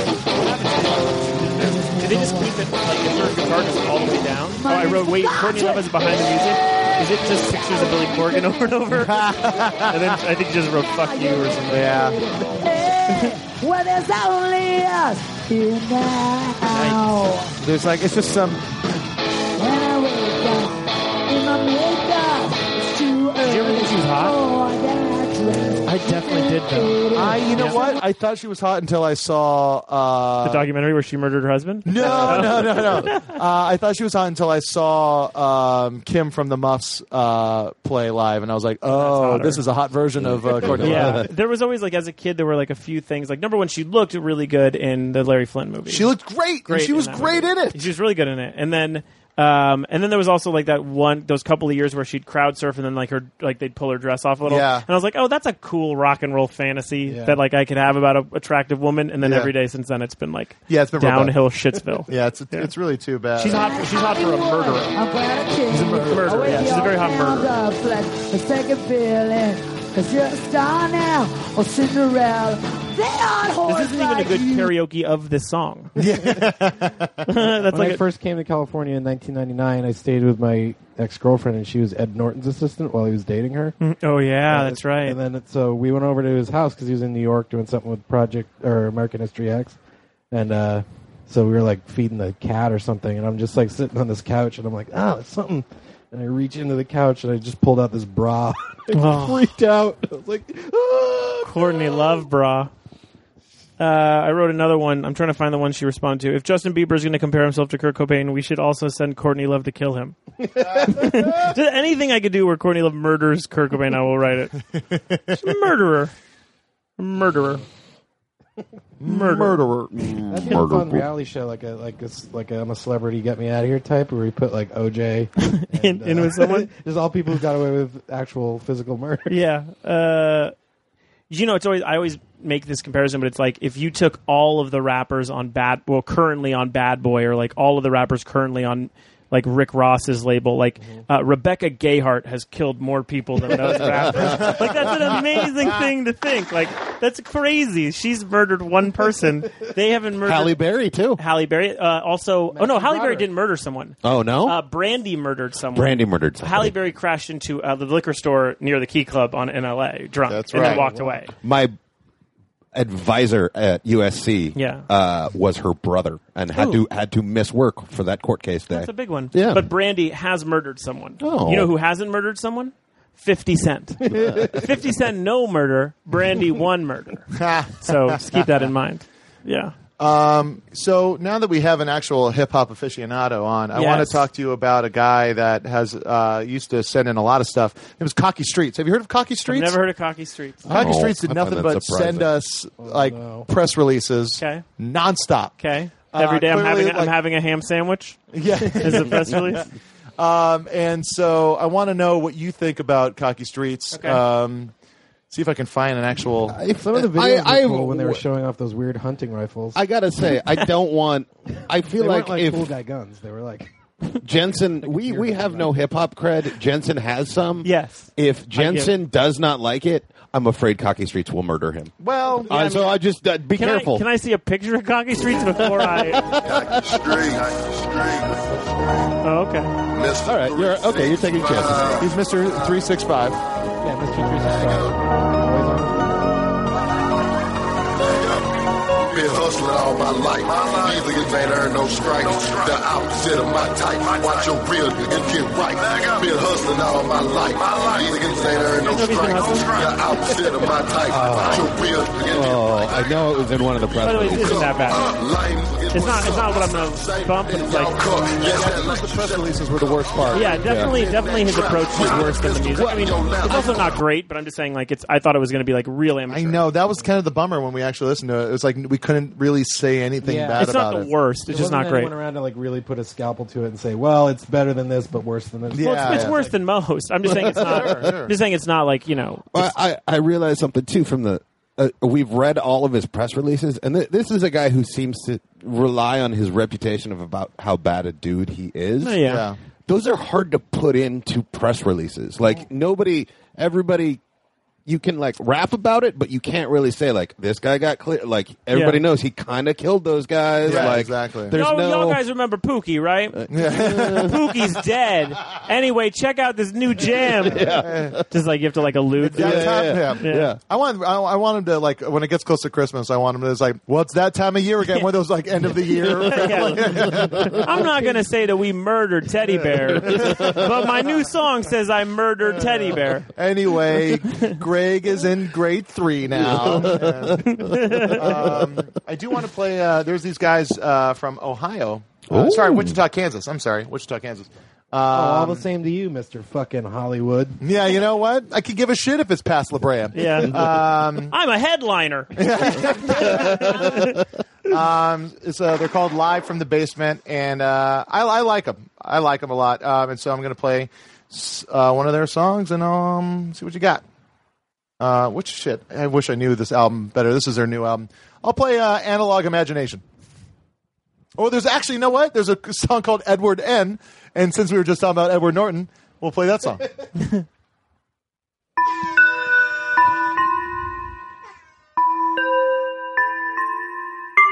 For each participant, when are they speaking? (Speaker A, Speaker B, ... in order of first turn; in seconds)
Speaker A: 0.4-9.3, 9.9-12.0, 16.7-17.2, 23.4-24.4, 25.9-27.9, 30.4-33.3, 38.9-39.6, 40.8-46.1, 46.7-62.7, 63.4-65.0, 66.1-67.5, 73.6-75.9, 77.3-78.0, 83.8-85.2, 98.9-99.5, 101.5-102.7, 103.8-114.6, 115.3-116.1, 117.0-117.6, 119.0-119.6, 125.4-126.7, 129.3-130.5, 131.3-161.3, 164.6-164.9, 166.5-166.8, 168.7-179.8, 183.7-184.3, 189.5-190.8, 194.4-194.7, 195.6-199.7, 203.9-204.2, 217.6-218.9, 222.5-223.0, 223.5-226.3, 229.2-229.7, 248.8-249.7, 254.0-255.1, 255.9-258.0, 260.3-266.7, 270.6-272.1, 275.8-279.8, 289.0-289.4, 298.7-299.0, 301.5-310.5, 316.2-323.3, 324.3-324.6, 327.4-328.5, 340.1-344.2
Speaker B: 1.4-2.7, 4.5-9.9, 10.9-17.5, 19.6-28.0, 63.5-74.7
Speaker C: 9.0-10.2, 11.7-12.2, 17.6-18.6, 27.1-30.7, 31.9-41.2, 45.9-47.8, 54.5-54.9, 59.2-59.5, 60.7-61.4, 62.1-63.8, 65.7-66.6, 76.0-77.3, 114.7-115.4, 119.0-119.4, 144.2-145.2, 160.3-160.8, 177.3-178.5, 180.0-189.8, 190.7-195.6, 196.1-197.1, 198.3-199.6, 200.2-204.7, 205.3-206.6, 222.0-222.9, 232.0-233.4, 258.4-260.6, 266.3-271.1, 275.7-276.4, 277.3-278.4, 289.2-289.6, 300.6-301.5, 303.5-304.3, 307.6-308.2, 309.3-317.7, 320.2-320.6, 322.4-335.7, 337.6-341.3, 342.4-343.9, 344.7-354.0, 355.0-360.0, 361.4-366.9
Speaker D: 40.2-41.2, 119.1-121.1, 143.8-144.2, 150.2-151.2, 154.0-154.6, 155.7-156.8, 161.4-161.8, 162.7-169.7, 171.2-171.7, 174.1-174.6, 190.7-192.3, 206.5-208.2, 209.8-212.7, 214.2-221.9, 222.5-224.1, 225.4-227.3, 230.2-232.0, 251.1-254.9, 257.4-257.9, 260.6-261.0, 262.7-263.4, 277.3-277.9, 279.5-289.2, 289.9-294.2, 294.9-302.2, 303.4-304.3, 307.4-308.2, 309.3-310.6, 320.2-320.6, 326.4-328.1, 332.3-333.0
Speaker E: 57.0-57.4, 76.0-76.5, 77.7-83.8, 84.5-89.8, 90.3-102.2, 110.5-111.5, 117.2-117.6, 120.3-129.4, 152.5-153.3, 160.5-161.3, 192.8-193.5, 206.7-209.8, 211.8-213.7, 214.5-215.9, 233.8-236.3, 270.2-270.6, 271.5-276.6, 335.1-337.6
Speaker F: 226.4-228.4, 229.9-232.1, 238.0-238.4, 239.1-253.3, 254.3-264.0